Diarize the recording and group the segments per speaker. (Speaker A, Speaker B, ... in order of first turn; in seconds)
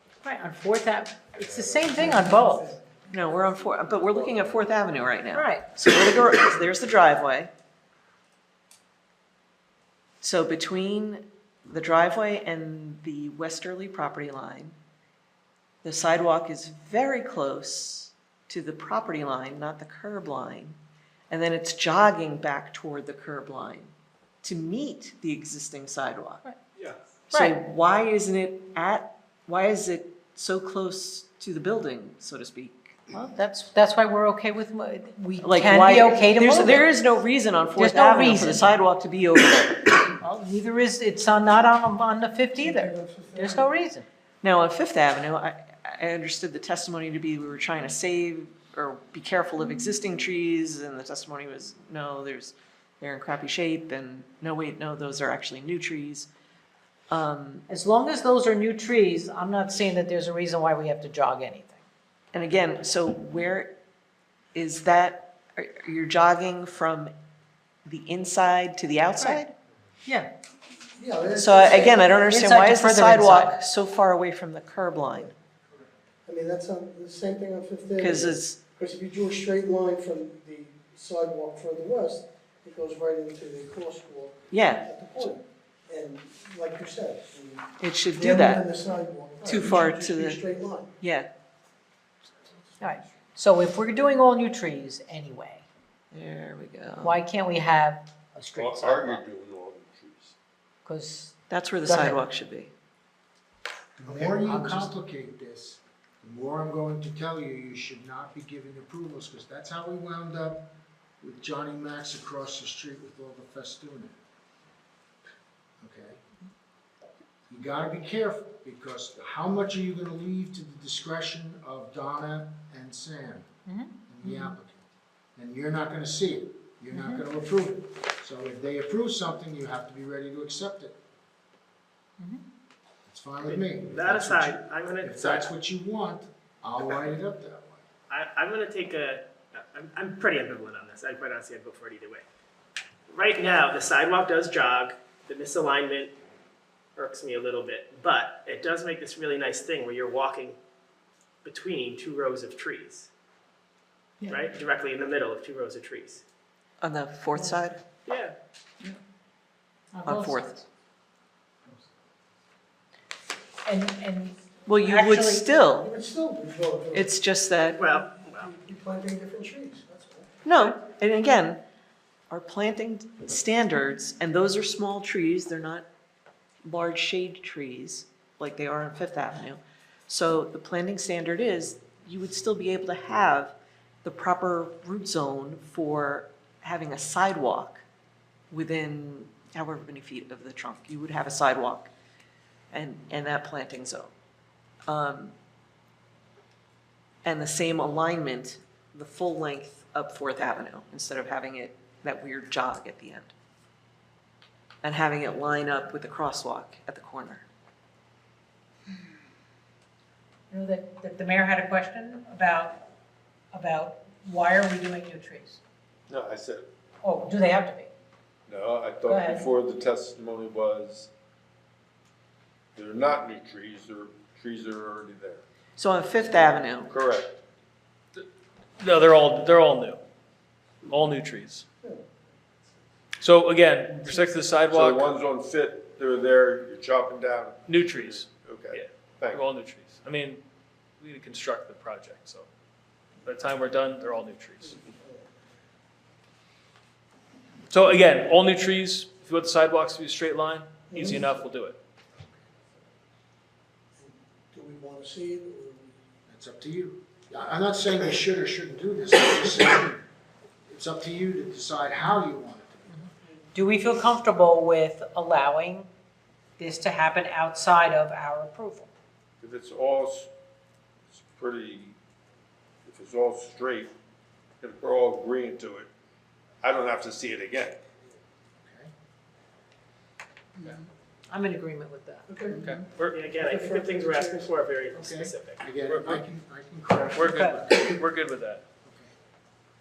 Speaker A: 0.2-2.8, 5.3-5.6, 33.1-36.9, 37.8-38.7, 40.2-44.0, 57.7-61.8, 70.0-70.3, 72.3-73.6, 92.8-95.7, 97.0-99.2, 100.8-102.2, 104.3-104.8, 123.7-124.5, 126.9-127.2, 154.2-154.4, 159.9-160.6, 163.6-165.5, 210.5-212.8, 213.5-215.6, 217.0-217.9, 219.1-219.5, 263.5-265.9, 266.6-268.9, 280.6-282.4, 287.3-287.6
Speaker B: 1.4-1.7, 98.5-100.3, 216.1-216.7, 218.5-221.1, 222.7-225.4, 226.8-227.4, 234.7-239.4, 269.4-270.3, 271.1-272.0, 272.9-273.9, 274.6-275.9, 276.6-277.8
Speaker C: 1.8-2.8, 42.6-43.7, 70.9-72.2, 76.2-90.9, 165.8-167.1, 168.0-170.3, 244.7-245.2, 250.9-251.4, 254.0-255.9, 282.3-282.6, 283.4-284.5
Speaker D: 3.1-7.5, 10.2-14.8, 15.8-20.8, 21.3-26.4, 27.3-33.1, 35.4-40.1, 44.4-56.3, 57.1-57.6, 62.3-63.7, 64.5-67.1, 67.8-69.5, 71.3-75.3, 78.0-78.6, 84.5-84.9, 87.8-88.6, 89.4-90.4, 91.0-91.3, 96.1-97.2, 101.5-102.7, 156.8-157.8, 160.0-160.6, 164.7-165.9, 166.9-167.8, 170.4-171.6, 172.3-175.9, 176.6-187.8, 188.5-191.9, 192.7-194.1, 194.9-195.3, 197.2-203.3, 204.8-207.4, 225.8-226.9
Speaker E: 104.0-110.7, 111.2-114.2, 115.8-116.2, 117.5-123.5, 124.1-124.8, 125.3-130.9, 133.1-137.8, 256.3-260.0, 260.7-263.0, 278.6-278.9, 284.9-288.0, 288.8-289.1
Speaker F: 133.4-135.5, 138.1-142.2, 143.1-146.1, 146.9-150.6, 151.4-153.1, 154.3-156.2, 158.1-158.3, 167.8-168.5, 283.1-285.7
Speaker G: 228.8-230.0, 230.8-231.6, 233.2-235.2, 237.7-240.4, 241.0-242.5, 243.2-244.8, 247.7-251.8, 282.6-283.2, 285.9-286.2, 287.1-288.6